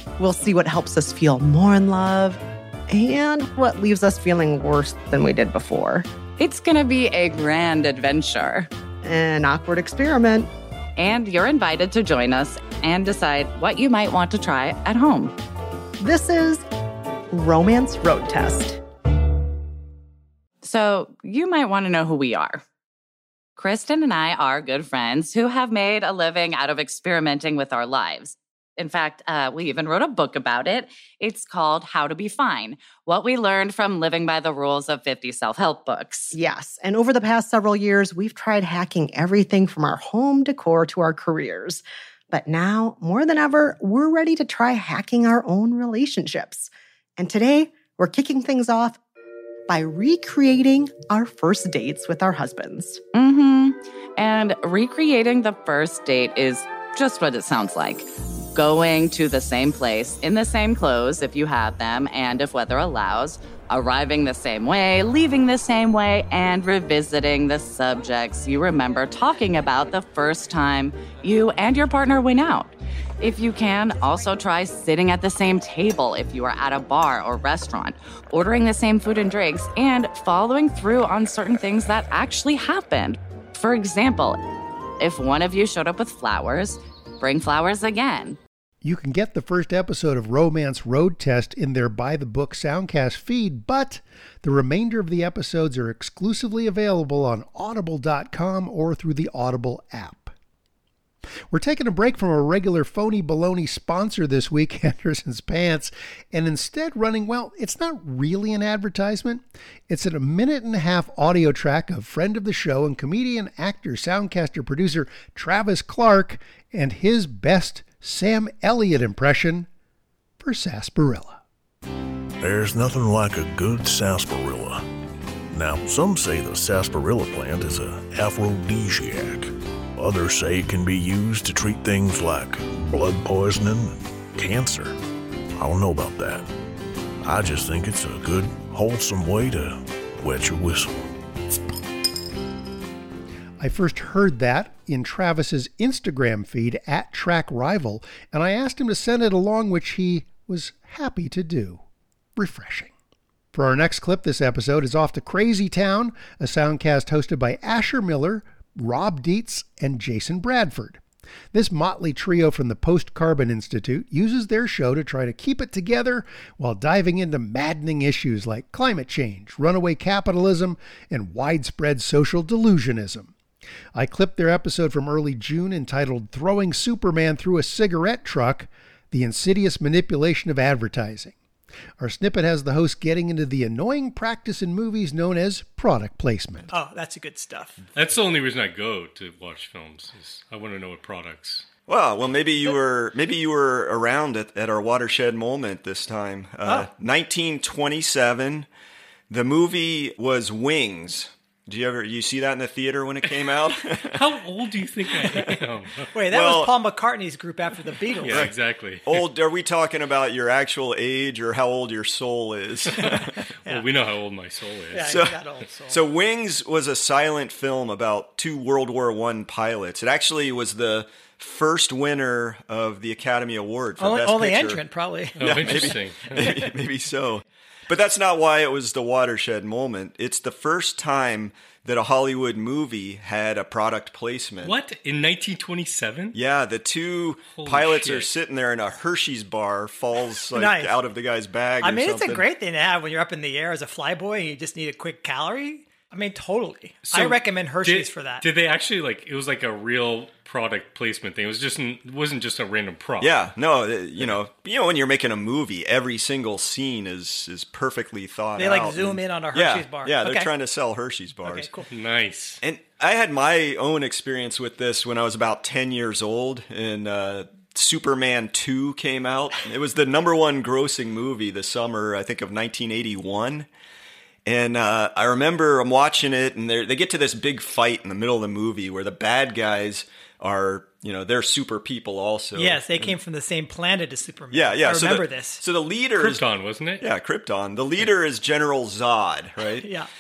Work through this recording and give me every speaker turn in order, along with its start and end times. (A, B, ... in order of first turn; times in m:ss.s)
0:00.2-0:06.1 A
0:06.4-0:08.7 B
0:09.0-0:10.5 A
0:11.0-0:15.3 B
0:16.0-0:16.6 A
0:17.3-0:18.8 A
0:20.6-0:22.6 B
0:23.6-0:36.4 B
0:36.3-0:49.0 A
0:49.7-0:53.0 A
0:53.1-1:24.4 B
1:25.0-1:28.4 B
1:28.8-1:40.3 C
1:41.5-1:59.7 C
2:00.4-2:01.4 C
2:02.4-2:04.8 D
2:05.5-2:15.0 D
2:15.6-2:16.5 D
2:17.2-2:21.1 D
2:23.6-2:31.8 C
2:32.4-2:32.9 C
2:33.5-2:41.0 C
2:41.5-2:53.3 C
2:53.9-3:01.4 C
3:02.0-3:06.7 C
3:06.7-3:07.8 E
3:08.0-3:11.7 F
3:11.9-3:18.7 G
3:19.3-3:24.2 G
3:24.1-3:26.1 F
3:25.2-3:25.5 E
3:26.1-3:28.5 E
3:26.3-3:26.8 G
3:28.2-3:29.2 F
3:28.2-3:33.4 G
3:33.0-3:33.9 E
3:33.0-3:35.2 F
3:34.9-3:36.0 E
3:35.0-3:44.9 G
3:44.0-3:46.7 E
3:45.4-3:46.7 F
3:45.4-3:54.8 G
3:54.6-3:56.4 F
3:56.3-4:02.5 G
3:57.5-3:58.3 F
4:00.5-4:01.0 E
4:01.8-4:08.4 E
4:07.1-4:13.5 F
4:13.2-4:21.7 G
4:18.6-4:20.5 E
4:21.4-4:21.9 E
4:21.9-4:22.6 F
4:22.6-4:33.7 G
4:34.5-4:43.2 G
4:42.6-4:45.6 E
4:44.5-4:46.4 G
4:46.2-4:47.0 F
4:47.0-4:49.9 G
4:49.8-4:50.1 E